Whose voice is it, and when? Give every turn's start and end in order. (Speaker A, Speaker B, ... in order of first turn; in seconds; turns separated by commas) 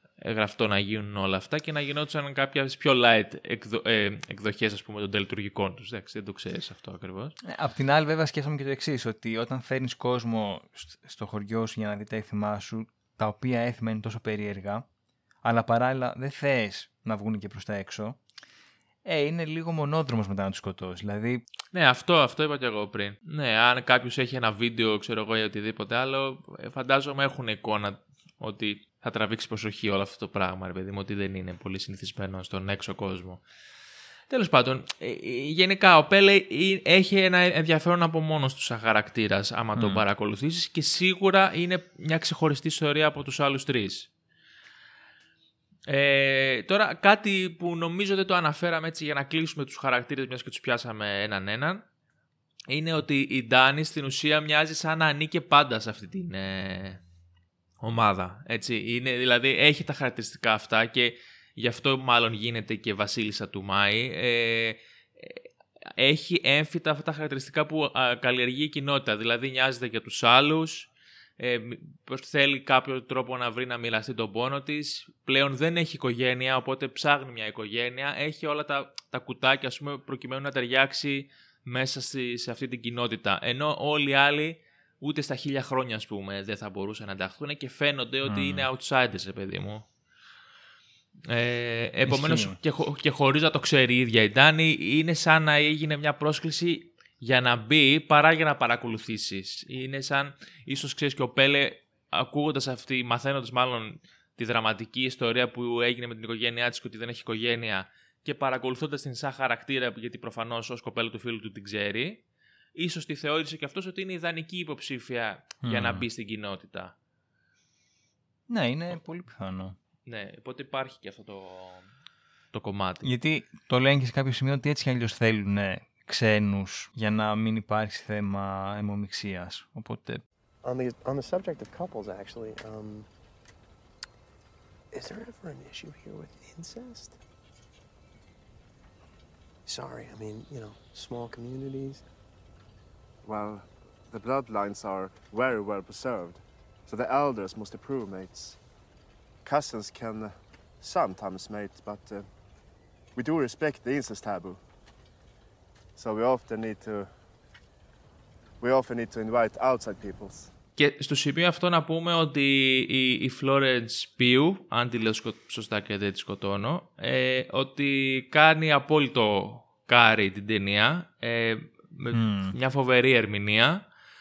Speaker A: 0.2-7.3, Speaker B: 7.4-14.8, Speaker B: 15.4-18.2, Speaker B: 19.0-21.4, Speaker A: 21.7-33.4, Speaker A: 34.3-44.1, Speaker B: 39.8-40.0, Speaker A: 45.9-51.8, Speaker A: 52.7-57.0, Speaker A: 57.8-65.4, Speaker A: 66.0-70.9, Speaker A: 71.4-89.9, Speaker B: 88.2-88.7, Speaker A: 91.3-112.2, Speaker B: 92.0-92.6, Speaker A: 112.8-116.9, Speaker B: 115.6-116.0, Speaker B: 118.5-119.8, Speaker A: 120.1-121.8, Speaker A: 122.5-123.1, Speaker B: 123.0-130.2, Speaker C: 130.6-133.1, Speaker C: 134.9-137.2, Speaker C: 139.7-142.0, Speaker D: 143.2-148.6, Speaker D: 149.4-152.2, Speaker D: 153.2-154.6, Speaker D: 155.9-157.1, Speaker D: 158.6-160.5, Speaker A: 160.8-173.8, Speaker B: 172.1-172.6